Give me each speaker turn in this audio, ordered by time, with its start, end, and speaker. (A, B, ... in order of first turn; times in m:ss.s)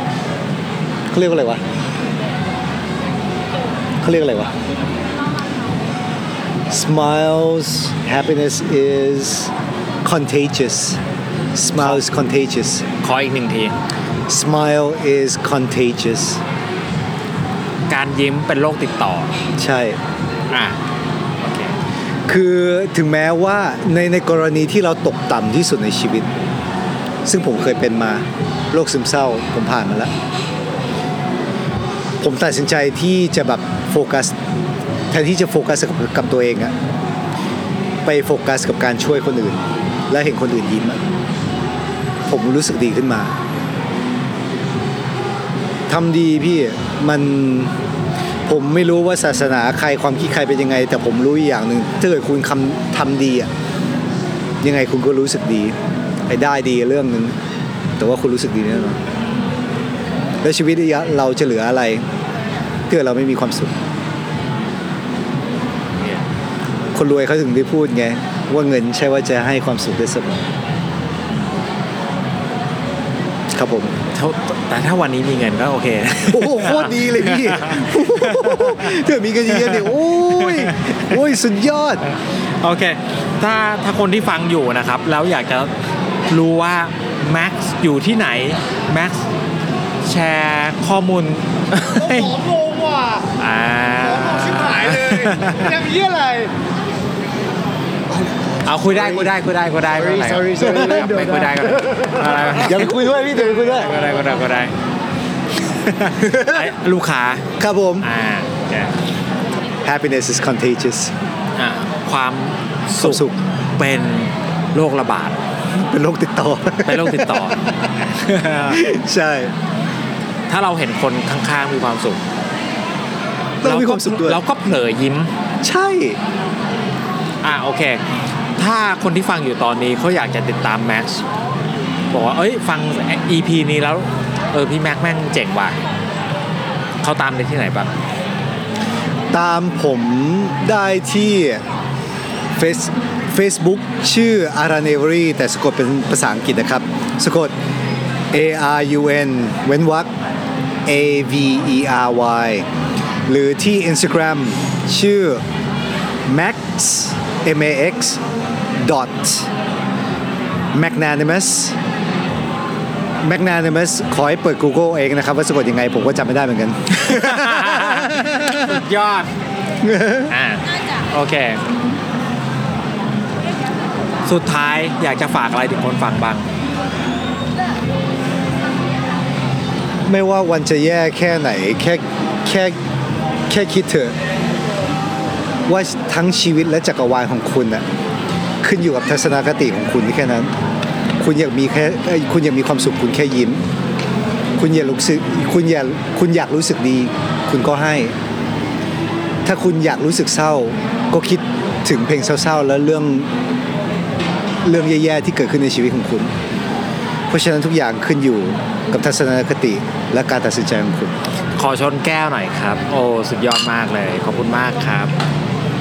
0:01.1-0:01.6 A
0:04.0-0:04.6 A
0:06.7-0:09.5 A
0:10.0-0:11.0 A
0:11.5-0:12.8 A
0:13.0-0:13.8 B
0:14.3-0:16.4 A
0:17.9-0:19.3 B
0:19.6-0:20.0 A
0:20.5-0:20.8 B
0:21.4-0:21.7 B
0:22.3-0:26.3 A
0:27.2-0:30.1 A
0:32.2-0:34.4 A
0:35.1-0:36.8 A
0:38.0-0:41.0 A
0:42.3-0:43.4 A
0:45.9-0:47.7 A
0:48.5-0:53.5 A
0:54.6-0:55.8 A
0:56.3-0:57.4 A
0:58.0-0:59.0 A
1:00.4-1:02.0 A
1:02.9-1:03.8 A
1:06.9-1:10.4 A
1:13.5-1:14.0 A
1:14.1-1:19.0 B
1:16.3-1:22.0 A
1:19.5-1:21.2 B
1:22.6-1:25.7 B
1:26.3-1:29.3 B
1:30.0-1:32.3 B
1:31.8-1:33.3 A
1:33.4-1:35.7 B
1:34.1-1:36.5 A
1:38.6-1:44.7 B
1:38.9-1:39.3 A
1:40.2-1:42.0 A
1:42.6-1:43.9 A
1:45.7-1:47.5 B
1:46.2-1:46.6 A
1:47.6-1:48.1 A
1:48.0-1:48.9 B
1:49.8-1:51.1 A
1:51.6-1:55.4 B
1:53.0-1:53.4 A
1:55.7-1:57.9 A
1:56.8-1:57.6 B
1:58.2-1:58.8 B
1:58.7-1:59.5 A
2:00.5-2:02.2 B
2:03.6-2:04.4 A
2:03.6-2:05.3 B
2:05.6-2:06.2 A
2:07.4-2:08.0 B
2:08.6-2:11.2 B
2:12.1-2:15.8 B
2:17.0-2:17.9 B
2:19.3-2:21.6 A
2:22.6-2:27.5 A
2:28.3-2:30.1 A
2:30.9-2:32.7 A
2:33.3-2:35.4 A
2:36.3-2:38.2 A
2:38.8-2:39.5 A
2:40.7-2:41.8 A
2:43.2-2:48.8 A
2:46.9-2:49.3 B
2:49.8-2:50.3 A
2:50.3-2:51.6 B
2:54.3-2:56.5 B
3:00.1-3:02.8 A
3:03.5-3:04.2 A
3:05.7-3:07.8 A
3:08.6-3:10.5 A
3:11.2-3:13.6 A
3:14.6-3:18.1 A
3:19.4-3:23.3 A
3:24.6-3:26.3 A
3:27.3-3:31.2 A
3:31.6-3:35.1 B